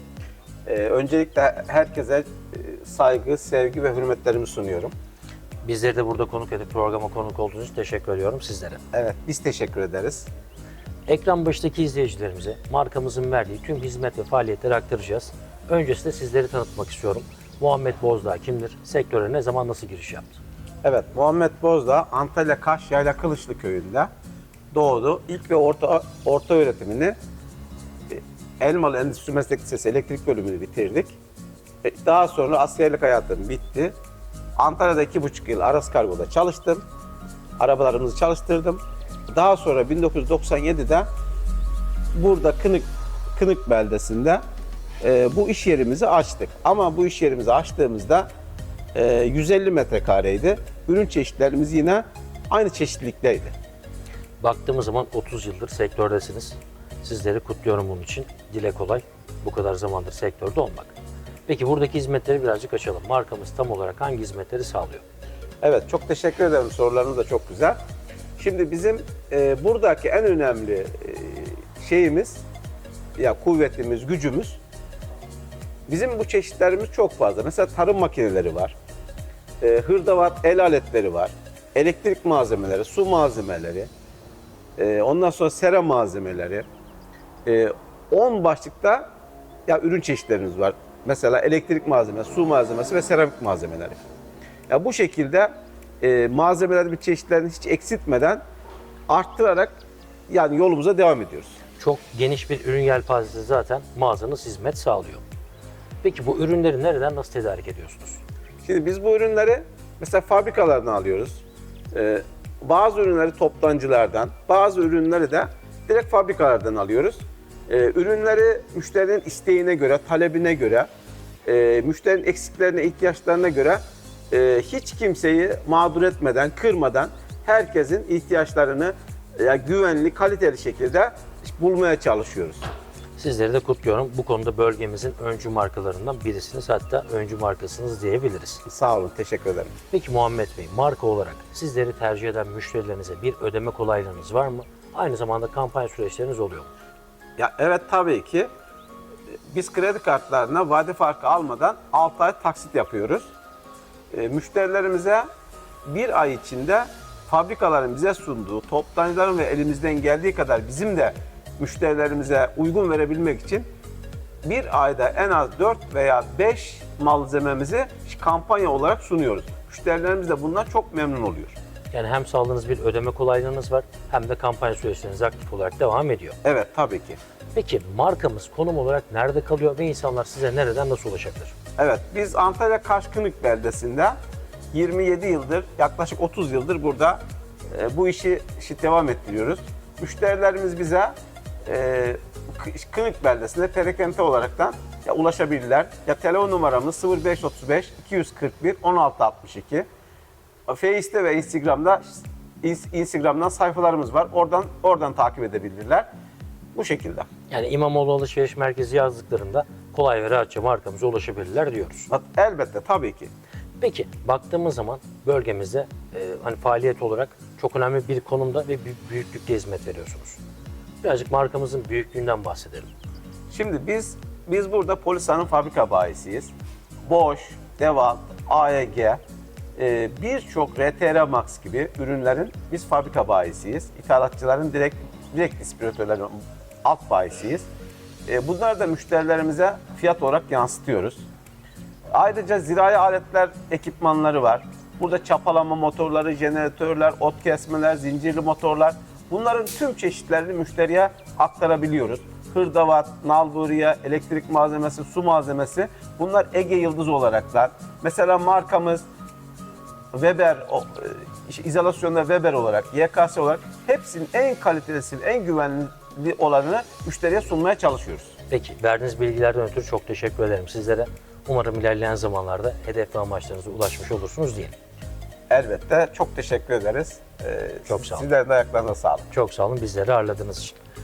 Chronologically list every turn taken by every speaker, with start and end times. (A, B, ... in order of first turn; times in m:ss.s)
0:00.7-0:04.9 A
0:05.6-0:08.8 B
0:08.9-0:10.3 A
0:11.1-0:20.4 B
0:20.8-0:24.1 A
0:24.7-0:27.2 A
0:28.1-0:31.2 A
0:31.8-0:33.9 A
0:34.6-0:36.8 A
0:37.6-0:41.1 A
0:42.1-0:44.4 A
0:45.0-0:48.3 A
0:48.9-0:53.5 A
0:54.4-1:00.9 B
1:01.5-1:05.0 B
1:05.6-1:07.8 A
1:08.4-1:12.4 A
1:13.2-1:14.6 A
1:15.9-1:18.8 A
1:19.6-1:23.9 A
1:24.8-1:26.7 A
1:27.5-1:29.1 A
1:29.7-1:34.0 A
1:34.7-1:38.4 A
1:39.1-1:39.8 A
1:40.3-1:41.6 A
1:41.8-1:45.2 B
1:46.0-1:48.2 B
1:48.6-2:00.9 A
2:01.4-2:12.6 A
2:13.2-2:18.6 B
2:18.7-2:19.7 A
2:19.9-2:26.7 B
2:27.4-2:28.5 A
2:29.5-2:33.3 A
2:34.1-2:35.3 A
2:35.8-2:43.7 A
2:44.4-2:51.6 A
2:51.9-2:56.4 B
2:56.4-2:57.2 A
2:57.5-3:01.5 B
3:01.8-3:04.2 A
3:04.7-3:19.9 A
3:20.7-3:26.1 A
3:26.8-3:27.3 A
3:27.5-3:32.1 B
3:32.1-3:33.3 A
3:33.8-3:40.4 B
3:41.0-3:42.9 B
3:43.5-3:46.5 A
3:47.1-3:49.2 A
3:49.8-3:57.6 A
3:58.3-4:01.3 A
4:02.1-4:19.0 A
4:20.1-4:28.4 A
4:28.5-4:34.8 B
4:35.5-4:39.3 A
4:37.9-4:38.3 B
4:39.3-4:40.8 B